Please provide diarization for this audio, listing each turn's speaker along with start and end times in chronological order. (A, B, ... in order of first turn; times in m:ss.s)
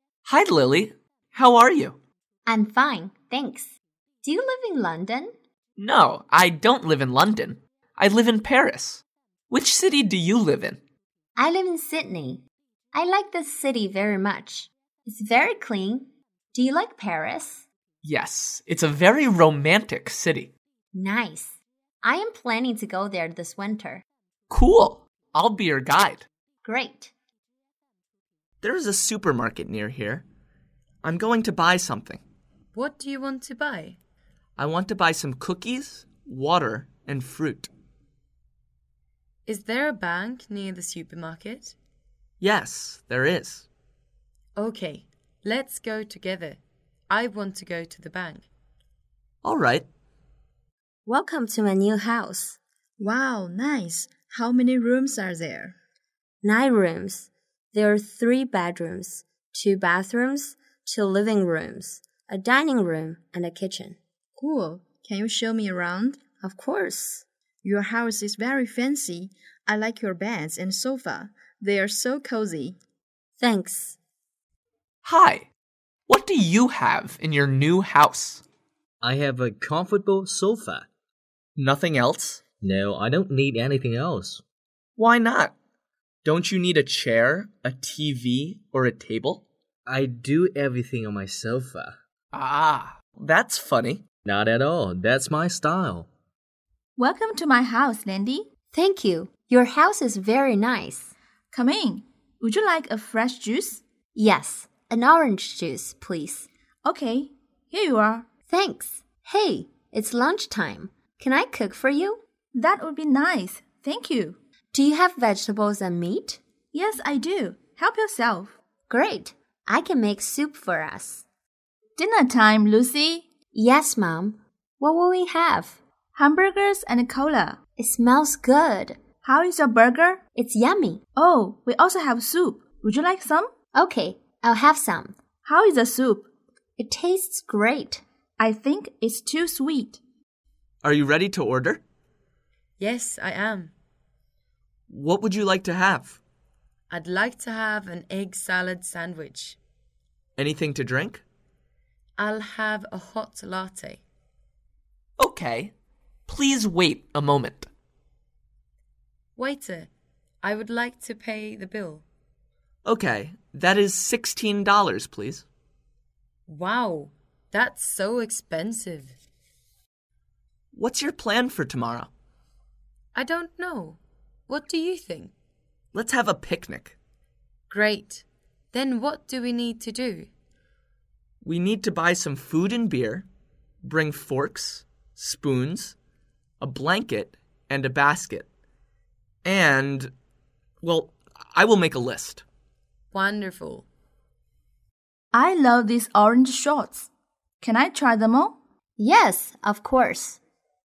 0:00.2-0:02.0 A
0:02.5-0:05.3 B
0:05.8-0:10.8 A
0:11.4-0:17.7 B
0:18.0-0:20.5 A
0:20.9-0:24.0 B
0:24.5-0:26.3 A
0:26.6-0:27.1 B
0:28.6-0:30.2 A
0:31.0-0:32.2 A
0:32.7-0:34.0 C
0:34.6-0:37.7 A
0:39.5-0:41.8 C
0:42.4-0:43.7 A
0:44.6-0:48.5 C
0:49.4-0:49.9 A
0:51.1-0:52.6 B
0:53.0-0:55.7 D
0:56.4-1:04.0 B
1:04.4-1:06.2 D
1:06.4-1:07.2 B
1:07.6-1:12.8 D
1:13.4-1:14.0 B
1:15.0-1:15.5 A
1:16.1-1:18.4 A
1:19.0-1:20.9 E
1:21.6-1:22.4 A
1:22.6-1:24.4 E
1:25.0-1:25.5 A
1:26.2-1:29.4 A
1:29.9-1:32.0 E
1:32.3-1:34.0 A
1:34.3-1:36.1 E
1:37.0-1:38.5 F
1:38.7-1:41.1 B
1:41.5-1:43.8 F
1:44.1-1:46.5 B
1:46.8-1:48.3 F
1:48.5-1:52.2 B
1:52.5-1:54.4 F
1:54.7-1:56.4 B
1:56.7-1:58.6 F
1:58.9-2:01.2 B
2:02.0-2:03.3 F
2:03.5-2:05.8 B
2:06.2-2:07.6 F
2:07.8-2:09.0 B
2:09.2-2:10.2 F
2:10.4-2:11.0 B
2:11.2-2:13.5 F
2:13.8-2:15.2 B
2:15.4-2:16.3 F
2:16.8-2:18.0 B
2:18.4-2:20.0 F
2:20.8-2:21.8 A
2:22.8-2:23.7 C
2:24.9-2:26.2 A
2:26.9-2:29.6 C
2:30.4-2:31.2 A
2:32.2-2:34.0 C
2:35.2-2:35.7 A
2:36.3-2:37.7 A
2:39.4-2:39.9 C
2:40.4-2:42.0 C
2:42.8-2:45.4 A
2:46.5-2:49.2 C
2:50.7-2:52.1 A
2:53.2-2:55.3 C
2:55.9-2:57.0 A
2:57.7-3:00.3 C
3:01.4-3:03.3 A
3:03.8-3:06.0 A
3:06.6-3:08.5 A
3:09.4-3:10.1 A
3:10.8-3:12.4 A
3:13.1-3:13.9 C
3:15.3-3:17.1 F
3:17.6-3:18.6 F
3:19.0-3:20.4 B